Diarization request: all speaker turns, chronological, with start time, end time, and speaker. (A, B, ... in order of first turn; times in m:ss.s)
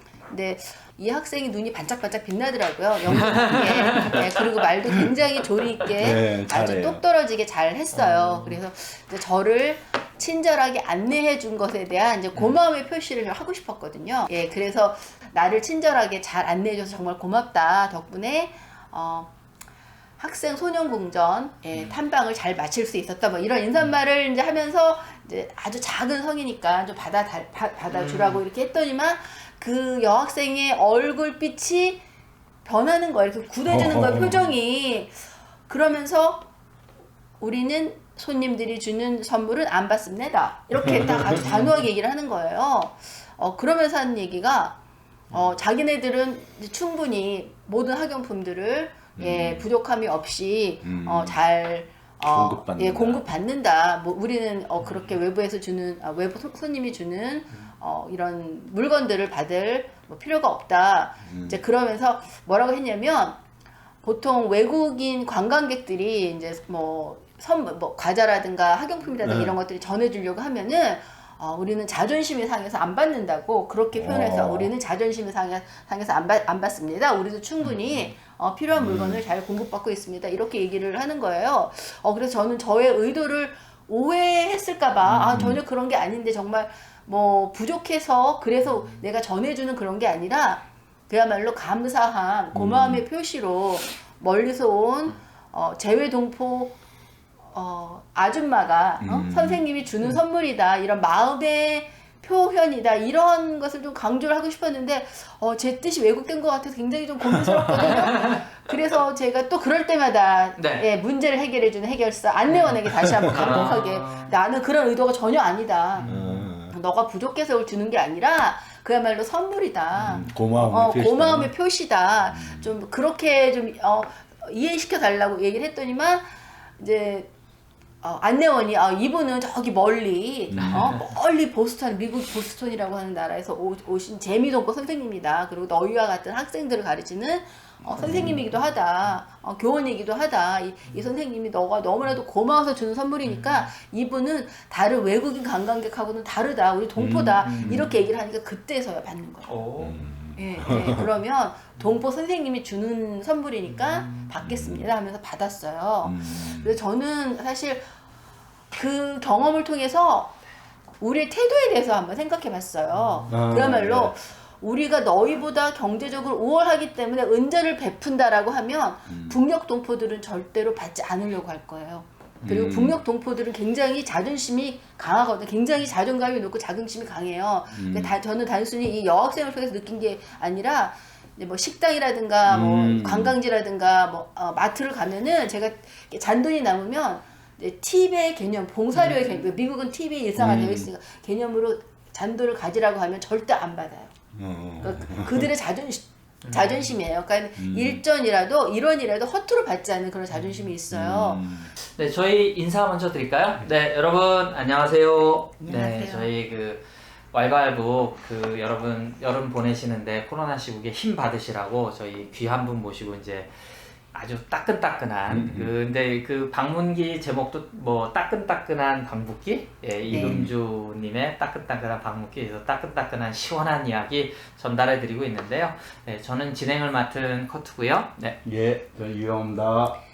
0:00.3-0:19.3 A
0:03.1-0:04.4 B
0:05.9-0:07.0 C
0:07.9-0:08.6 B
0:20.2-0:32.0 A
0:27.9-0:28.4 B
0:32.6-0:36.5 A
0:33.7-0:34.5 C
0:37.4-0:44.8 A
0:40.7-0:41.4 C
0:41.2-0:41.8 B
0:45.3-1:03.4 A
0:45.3-0:45.6 B
0:49.2-0:49.7 C
0:50.8-0:51.4 C
0:52.2-0:53.3 C
0:54.8-0:55.2 B
1:01.2-1:01.6 C
1:04.0-1:36.8 A
1:09.2-1:09.6 C
1:13.9-1:14.7 C
1:17.6-1:18.1 B
1:18.7-1:19.2 C
1:25.0-1:25.5 B
1:25.3-1:25.6 C
1:28.6-1:29.0 B
1:32.5-1:33.0 C
1:37.5-2:07.3 A
1:39.0-1:39.6 C
1:47.3-1:47.9 C
1:47.8-1:48.4 B
1:50.6-1:50.9 B
1:52.5-1:54.3 B
1:52.9-1:53.7 C
1:56.0-1:56.5 B
1:56.1-1:56.7 C
2:00.0-2:00.2 B
2:00.0-2:01.5 C
2:02.3-2:02.7 C
2:08.0-2:29.6 A
2:10.5-2:11.0 C
2:10.5-2:11.1 B
2:18.0-2:18.6 B
2:18.0-2:18.4 C
2:23.2-2:23.7 B
2:27.0-2:27.9 C
2:27.4-2:28.0 B
2:29.4-2:30.0 B
2:29.8-2:31.1 C
2:30.4-2:37.8 A
2:33.6-2:34.3 B
2:34.4-2:34.9 C
2:36.0-2:36.8 C
2:38.7-2:40.4 A
2:41.0-3:14.1 A
2:42.9-2:43.3 B
2:43.3-2:44.2 C
2:49.1-2:49.4 C
2:52.4-2:53.0 C
2:57.7-2:58.2 C
3:02.4-3:03.4 C
3:08.9-3:09.4 B
3:10.4-3:10.9 C
3:14.3-3:15.5 C
3:14.8-3:21.4 A
3:16.4-3:16.9 B
3:17.6-3:18.0 C
3:20.3-3:20.7 B
3:20.9-3:21.7 C
3:21.8-3:48.4 B
3:25.6-3:26.3 A
3:35.3-3:35.7 C
3:40.1-3:40.5 C
3:40.1-3:40.4 A
3:48.4-3:50.0 C